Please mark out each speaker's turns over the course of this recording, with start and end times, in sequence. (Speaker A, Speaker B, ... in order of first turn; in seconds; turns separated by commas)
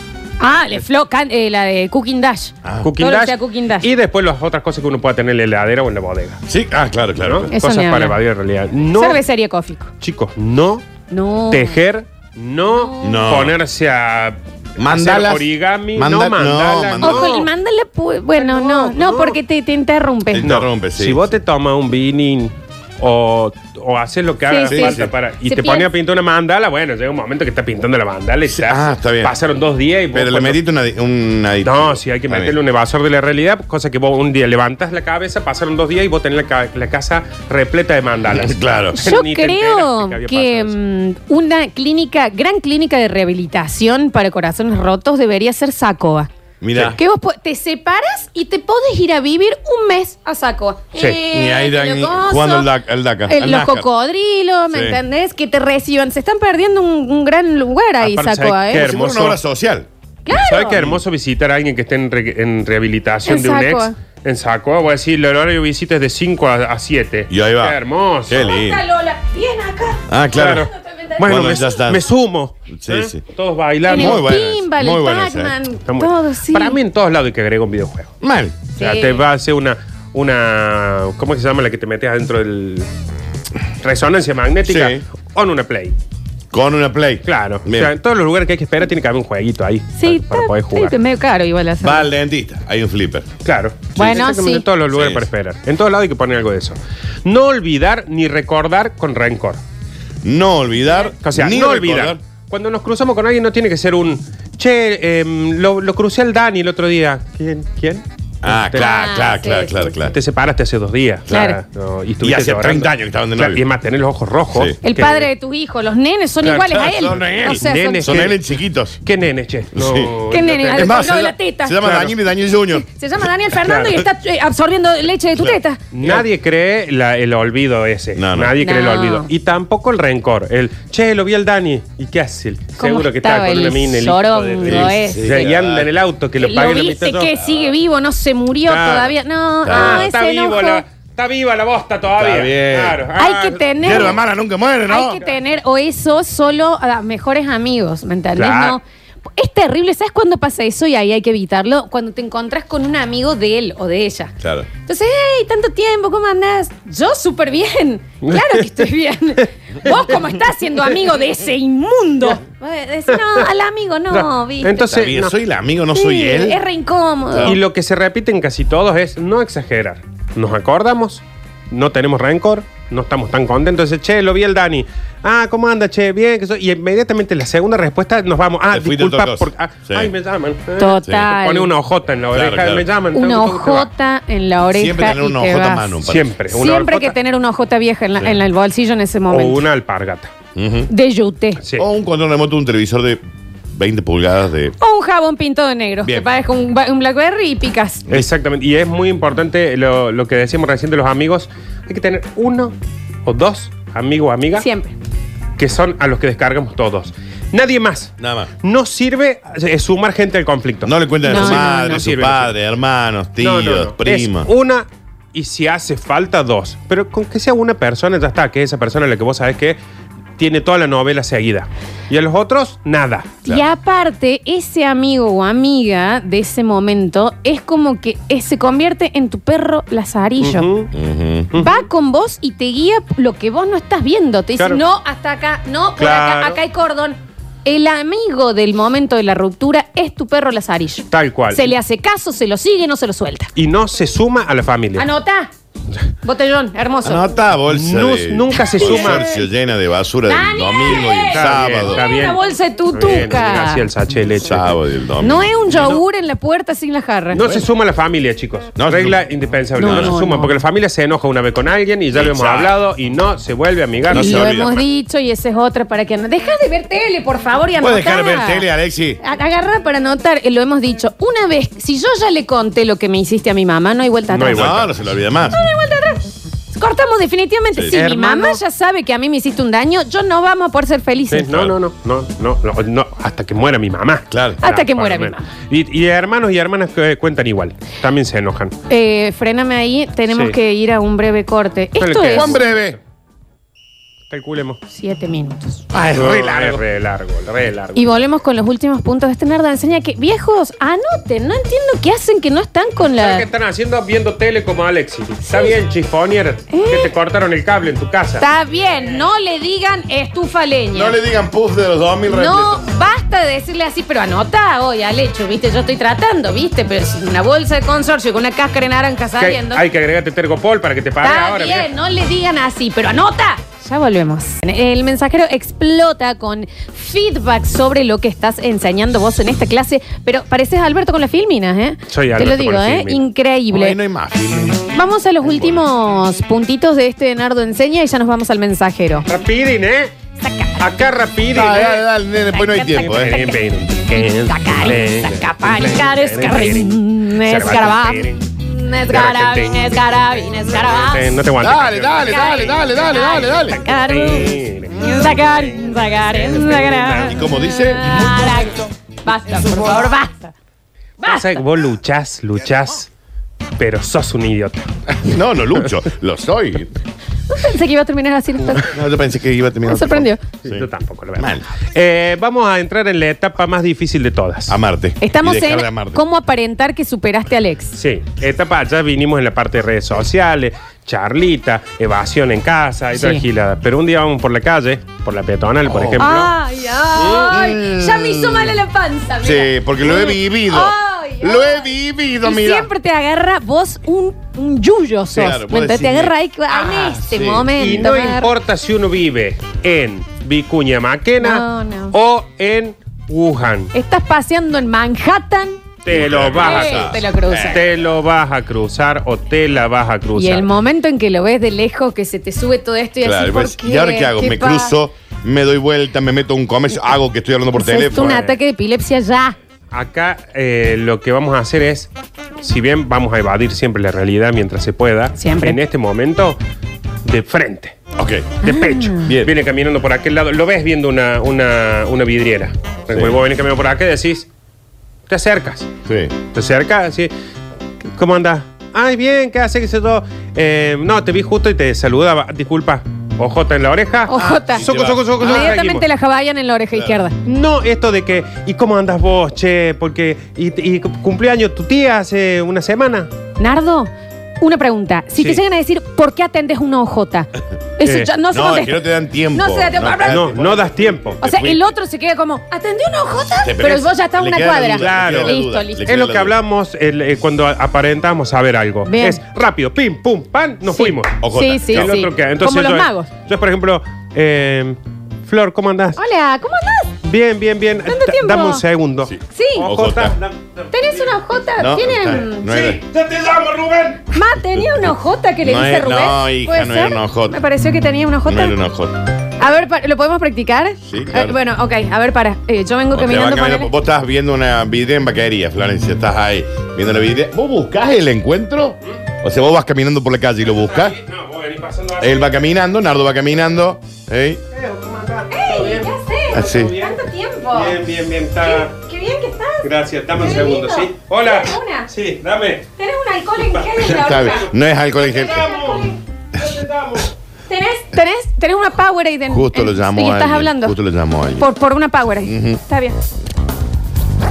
Speaker A: 0.4-3.9, Speaker B: 2.6-2.9, Speaker C: 2.8-6.4, Speaker B: 6.5-7.5, Speaker C: 7.2-9.2, Speaker A: 7.5-8.2, Speaker A: 8.9-9.9, Speaker C: 10.0-10.9, Speaker A: 11.1-11.8, Speaker C: 11.5-17.5, Speaker A: 12.7-13.3, Speaker B: 13.0-13.6, Speaker B: 14.8-17.4, Speaker A: 17.0-20.5, Speaker C: 18.4-19.4, Speaker B: 20.3-21.3, Speaker C: 20.4-30.6, Speaker A: 24.5-25.9, Speaker B: 24.7-25.1, Speaker B: 28.5-29.4, Speaker B: 30.1-32.6, Speaker C: 31.6-40.8, Speaker B: 38.3-39.0, Speaker A: 38.9-46.3, Speaker B: 46.6-47.0, Speaker A: 46.8-52.7, Speaker B: 51.3-53.9, Speaker A: 53.3-58.9, Speaker B: 54.7-55.0, Speaker C: 58.0-59.4, Speaker B: 58.7-59.9, Speaker A: 60.2-60.8, Speaker C: 60.3-68.5, Speaker B: 60.7-61.0, Speaker A: 63.2-64.0, Speaker B: 67.3-68.8, Speaker A: 68.4-70.1, Speaker B: 70.1-70.7, Speaker C: 70.3-74.3, Speaker A: 70.7-71.6, Speaker B: 71.2-72.0, Speaker B: 72.7-73.2, Speaker A: 73.9-76.8, Speaker B: 73.9-75.5, Speaker C: 75.9-78.1, Speaker B: 78.2-78.6, Speaker A: 78.8-79.2, Speaker C: 78.8-82.9, Speaker C: 83.8-86.0, Speaker B: 84.7-85.0, Speaker B: 86.5-87.9, Speaker C: 87.3-91.0, Speaker A: 90.0-92.1, Speaker B: 91.8-93.3, Speaker C: 93.5-99.6, Speaker A: 94.0-94.7, Speaker B: 94.9-95.3, Speaker B: 100.2-102.2, Speaker C: 101.2-108.9, Speaker B: 108.4-110.2, Speaker A: 108.7-109.9, Speaker C: 110.1-115.3, Speaker A: 111.3-111.6, Speaker B: 112.2-113.6, Speaker A: 114.8-118.3, Speaker C: 116.4-116.9, Speaker B: 116.5-119.0, Speaker C: 117.4-118.5, Speaker C: 119.0-121.2, Speaker B: 119.7-120.2, Speaker A: 120.3-121.8, Speaker B: 120.7-122.9, Speaker C: 121.8-122.1, Speaker A: 122.7-125.8, Speaker C: 123.6-124.0, Speaker B: 125.4-126.3, Speaker C: 125.9-137.4, Speaker B: 128.2-128.6, Speaker A: 128.6-129.3, Speaker A: 132.8-135.5, Speaker B: 134.6-135.9, Speaker A: 136.4-140.8, Speaker C: 138.7-144.2, Speaker B: 139.6-140.1, Speaker B: 142.2-143.0, Speaker A: 143.2-144.2, Speaker B: 143.8-145.2, Speaker A: 144.9-148.8, Speaker C: 148.4-148.8, Speaker A: 149.4-164.9, Speaker B: 154.4-154.7, Speaker C: 158.3-158.8, Speaker C: 163.1-163.5, Speaker C: 164.1-165.3, Speaker B: 164.8-166.6, Speaker A: 165.9-167.6, Speaker B: 167.3-167.6, Speaker C: 167.4-183.9, Speaker B: 178.7-180.1, Speaker A: 180.8-181.7, Speaker B: 181.0-181.3, Speaker B: 182.3-182.9, Speaker A: 183.1-186.0, Speaker B: 184.7-186.3, Speaker C: 186.1-187.2, Speaker A: 186.5-189.6, Speaker C: 189.3-190.3, Speaker B: 190.6-190.9, Speaker A: 190.9-191.6, Speaker C: 191.6-191.9, Speaker B: 191.8-194.8, Speaker A: 194.8-198.1, Speaker C: 198.1-202.7, Speaker C: 203.2-204.7, Speaker A: 204.6-204.9, Speaker C: 205.6-212.5, Speaker B: 208.2-208.5, Speaker B: 210.8-214.5, Speaker A: 211.2-212.1, Speaker C: 213.4-219.8, Speaker C: 220.4-223.3, Speaker A: 223.4-230.7, Speaker C: 230.4-230.9, Speaker B: 230.9-231.5, Speaker A: 231.6-243.5, Speaker C: 236.0-236.6, Speaker C: 241.1-241.7, Speaker C: 243.6-245.1, Speaker A: 245.0-245.5, Speaker A: 246.2-247.3, Speaker B: 247.0-252.0, Speaker C: 247.7-249.3, Speaker A: 248.7-249.4, Speaker A: 250.3-253.9, Speaker C: 251.3-252.4, Speaker C: 252.9-254.8, Speaker B: 254.4-255.5, Speaker A: 255.2-257.6, Speaker C: 255.7-256.0, Speaker C: 257.3-264.6, Speaker B: 258.8-259.2, Speaker A: 259.8-260.5, Speaker B: 259.8-260.1, Speaker B: 262.1-262.7, Speaker B: 264.1-264.8, Speaker A: 264.1-268.7, Speaker B: 267.8-269.2, Speaker A: 269.2-274.8, Speaker C: 274.3-274.9, Speaker B: 274.5-275.6, Speaker A: 275.5-281.5, Speaker C: 277.9-278.6, Speaker C: 281.3-288.8, Speaker B: 284.3-284.6, Speaker A: 284.6-285.5, Speaker A: 288.9-292.6, Speaker C: 292.0-293.0, Speaker B: 292.3-293.0, Speaker C: 294.3-294.8, Speaker A: 294.9-295.9, Speaker B: 295.9-296.8, Speaker C: 296.1-298.1, Speaker A: 297.9-303.5, Speaker C: 303.2-308.4, Speaker A: 305.5-305.8, Speaker A: 306.7-307.1, Speaker A: 308.4-311.2, Speaker B: 310.9-312.8, Speaker A: 312.3-319.9, Speaker C: 319.4-321.9, Speaker A: 321.2-334.0, Speaker C: 332.1-333.2, Speaker B: 333.7-334.9, Speaker A: 334.9-339.3, Speaker B: 335.4-335.8, Speaker C: 339.3-340.1, Speaker A: 340.4-341.0, Speaker C: 340.8-342.0, Speaker B: 341.5-343.4, Speaker A: 342.5-343.6, Speaker C: 342.9-348.4, Speaker A: 344.1-351.3, Speaker C: 349.1-350.1, Speaker C: 350.7-357.4, Speaker B: 351.6-353.8, Speaker A: 352.2-360.5, Speaker B: 357.3-358.5, Speaker A: 361.2-361.6, Speaker C: 361.2-363.1, Speaker C: 363.8-364.9, Speaker B: 365.2-366.9, Speaker A: 367.5-368.9, Speaker B: 368.8-370.9, Speaker A: 369.9-370.4, Speaker C: 370.6-374.8, Speaker B: 371.4-371.7, Speaker B: 374.7-376.2, Speaker A: 375.2-378.0, Speaker C: 378.0-386.5, Speaker A: 383.1-383.4, Speaker B: 385.9-386.3, Speaker A: 386.2-398.5, Speaker B: 387.2-388.8, Speaker B: 389.4-392.9, Speaker B: 395.3-396.3, Speaker B: 396.9-397.7, Speaker C: 397.8-403.9, Speaker A: 401.4-402.1, Speaker A: 403.9-405.8, Speaker C: 406.0-410.7, Speaker B: 406.1-408.0, Speaker A: 406.6-407.8, Speaker A: 410.4-415.0, Speaker B: 413.2-418.4, Speaker A: 417.8-419.6, Speaker C: 418.1-418.6, Speaker C: 419.9-422.1, Speaker C: 422.6-426.6, Speaker A: 425.4-425.8, Speaker C: 427.2-428.0, Speaker B: 428.2-428.6, Speaker C: 428.6-434.5, Speaker A: 428.6-429.3, Speaker B: 429.2-429.5, Speaker B: 433.1-433.4, Speaker C: 435.3-435.9, Speaker B: 436.1-436.4, Speaker C: 436.5-437.3, Speaker C: 438.1-446.1, Speaker A: 444.3-444.9, Speaker B: 444.3-445.8, Speaker A: 445.4-447.4, Speaker C: 447.4-453.3, Speaker A: 453.6-459.0, Speaker C: 458.0-458.3, Speaker B: 458.5-461.9, Speaker A: 459.5-460.4, Speaker C: 460.2-461.4, Speaker A: 461.4-466.1, Speaker B: 463.6-466.6, Speaker C: 464.9-476.2, Speaker A: 469.1-469.4, Speaker A: 470.9-473.3, Speaker B: 471.4-472.3, Speaker A: 476.2-477.2, Speaker C: 477.2-481.3, Speaker A: 478.1-478.8, Speaker B: 479.3-480.4, Speaker A: 479.5-479.9, Speaker A: 480.9-482.9, Speaker B: 481.8-483.0, Speaker C: 482.7-484.3, Speaker A: 484.3-488.8, Speaker B: 485.6-487.6, Speaker B: 488.5-489.2, Speaker A: 489.6-493.9, Speaker B: 491.1-491.6, Speaker B: 493.1-501.2, Speaker C: 500.6-502.5, Speaker B: 502.2-504.6, Speaker C: 504.7-507.2, Speaker A: 505.5-508.0, Speaker B: 506.5-506.9, Speaker C: 507.7-508.9, Speaker A: 508.6-512.1, Speaker C: 509.8-512.9, Speaker A: 513.0-514.7, Speaker C: 513.7-517.3, Speaker B: 514.0-515.7, Speaker A: 515.6-516.2, Speaker A: 517.7-521.0, Speaker B: 519.5-521.7, Speaker A: 521.6-523.2, Speaker B: 522.4-522.8